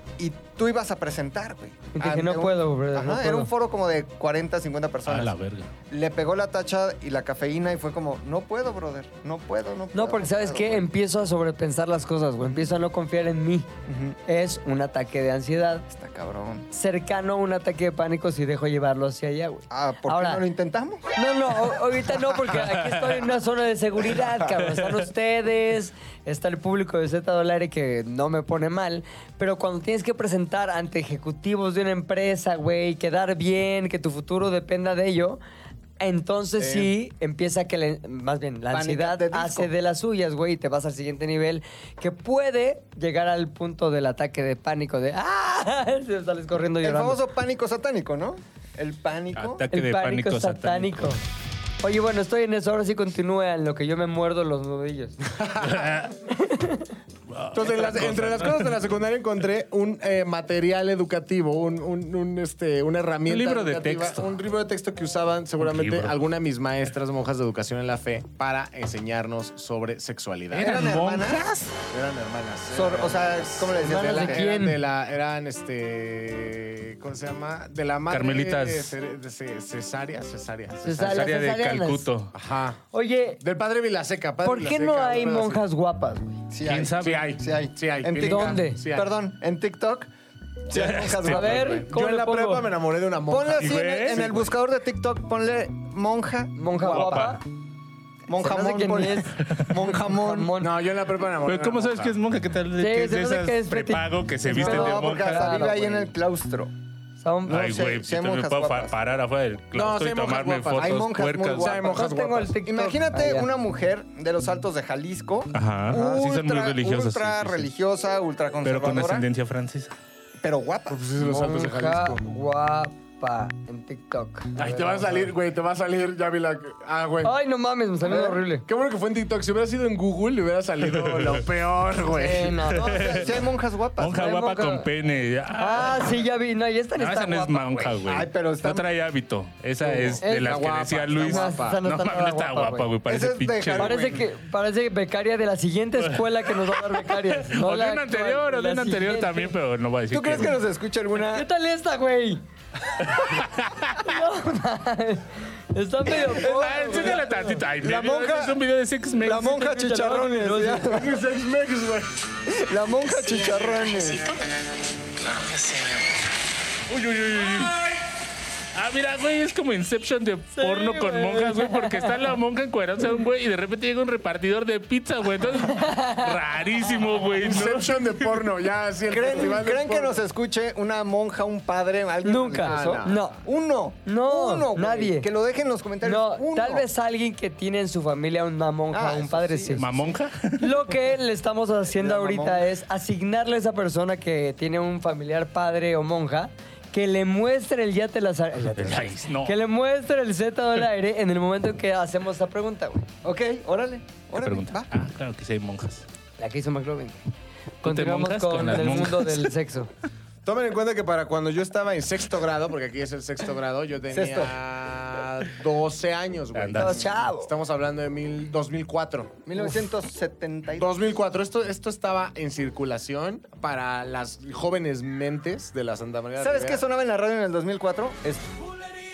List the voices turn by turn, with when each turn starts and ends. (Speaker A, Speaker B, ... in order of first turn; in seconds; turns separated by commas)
Speaker A: 0.2-5.3, Speaker B: 1.9-3.5, Speaker C: 5.1-5.7, Speaker A: 5.9-10.9, Speaker B: 9.9-13.7, Speaker A: 13.9-14.2, Speaker B: 14.3-15.9, Speaker A: 15.9-16.7, Speaker B: 16.7-20.4, Speaker A: 19.7-21.0, Speaker B: 21.2-35.4, Speaker B: 36.0-47.2, Speaker D: 36.6-36.9, Speaker A: 38.7-39.7, Speaker A: 46.8-49.6, Speaker C: 49.4-51.1, Speaker B: 49.7-51.2, Speaker B: 51.8-55.2, Speaker D: 55.4-55.9, Speaker C: 55.6-56.1, Speaker B: 56.3-56.9, Speaker C: 57.3-58.7, Speaker D: 57.5-70.9, Speaker C: 63.3-64.3, Speaker C: 65.6-66.2, Speaker C: 70.5-71.7, Speaker A: 70.6-71.5, Speaker D: 71.9-81.3, Speaker A: 72.7-74.4, Speaker B: 73.8-74.8, Speaker C: 78.1-79.0, Speaker B: 80.8-82.1, Speaker C: 81.0-82.3, Speaker D: 82.3-82.8, Speaker B: 82.9-83.4, Speaker D: 83.4-85.6, Speaker B: 84.4-86.3, Speaker A: 86.5-90.1, Speaker C: 86.6-87.3, Speaker D: 86.9-89.1, Speaker B: 88.2-88.8, Speaker A: 90.7-91.8, Speaker C: 90.7-91.8, Speaker B: 91.2-92.7, Speaker D: 91.8-94.5, Speaker A: 93.3-97.2, Speaker C: 93.5-94.3, Speaker B: 96.6-97.4, Speaker C: 96.8-97.4, Speaker A: 98.3-100.5, Speaker B: 98.4-99.3, Speaker C: 99.4-99.8, Speaker B: 100.0-100.7, Speaker D: 100.6-102.2, Speaker C: 101.4-105.6, Speaker B: 102.8-106.1, Speaker A: 104.5-106.7, Speaker B: 107.2-107.6, Speaker A: 107.5-108.9, Speaker C: 107.5-111.8, Speaker D: 109.7-112.5, Speaker A: 110.8-112.0, Speaker B: 111.8-113.5, Speaker A: 112.7-119.3, Speaker C: 115.5-117.7, Speaker C: 118.6-120.0, Speaker A: 120.4-121.0, Speaker D: 120.9-122.2, Speaker B: 121.2-125.1, Speaker D: 124.6-127.3, Speaker B: 127.2-128.6, Speaker D: 128.1-132.7, Speaker C: 130.9-131.4, Speaker B: 132.1-133.1, Speaker A: 132.7-134.4, Speaker C: 132.8-133.4, Speaker C: 134.0-136.2, Speaker B: 134.1-134.9, Speaker B: 135.6-138.0, Speaker C: 137.0-144.2, Speaker A: 138.1-138.9, Speaker D: 139.8-141.8, Speaker B: 140.2-140.7, Speaker B: 141.2-142.9, Speaker A: 143.1-144.2, Speaker B: 143.8-149.6, Speaker C: 146.0-150.6, Speaker A: 150.1-151.5, Speaker B: 151.2-152.4, Speaker C: 153.0-154.0, Speaker B: 154.0-157.6, Speaker C: 156.2-159.8, Speaker A: 156.3-158.6, Speaker A: 159.2-161.2, Speaker B: 159.7-161.0, Speaker D: 160.8-162.1, Speaker A: 162.5-164.3, Speaker C: 166.9-167.9, Speaker C: 168.7-178.4, Speaker B: 170.5-172.2, Speaker B: 175.6-176.4, Speaker D: 177.4-180.2, Speaker A: 179.1-186.9, Speaker B: 182.2-183.4, Speaker D: 182.6-183.2, Speaker B: 184.1-185.3, Speaker B: 186.0-189.9, Speaker A: 188.9-190.1, Speaker C: 189.8-190.7, Speaker B: 190.6-203.1, Speaker A: 191.9-192.7, Speaker C: 198.8-199.6, Speaker A: 203.2-204.9, Speaker C: 204.3-206.1, Speaker B: 206.4-207.2, Speaker C: 207.8-209.5, Speaker B: 207.8-209.9, Speaker D: 210.4-219.4, Speaker A: 214.1-214.5, Speaker C: 216.6-217.0, Speaker B: 216.8-217.5, Speaker A: 219.5-220.9, Speaker D: 220.8-226.8, Speaker A: 226.4-228.5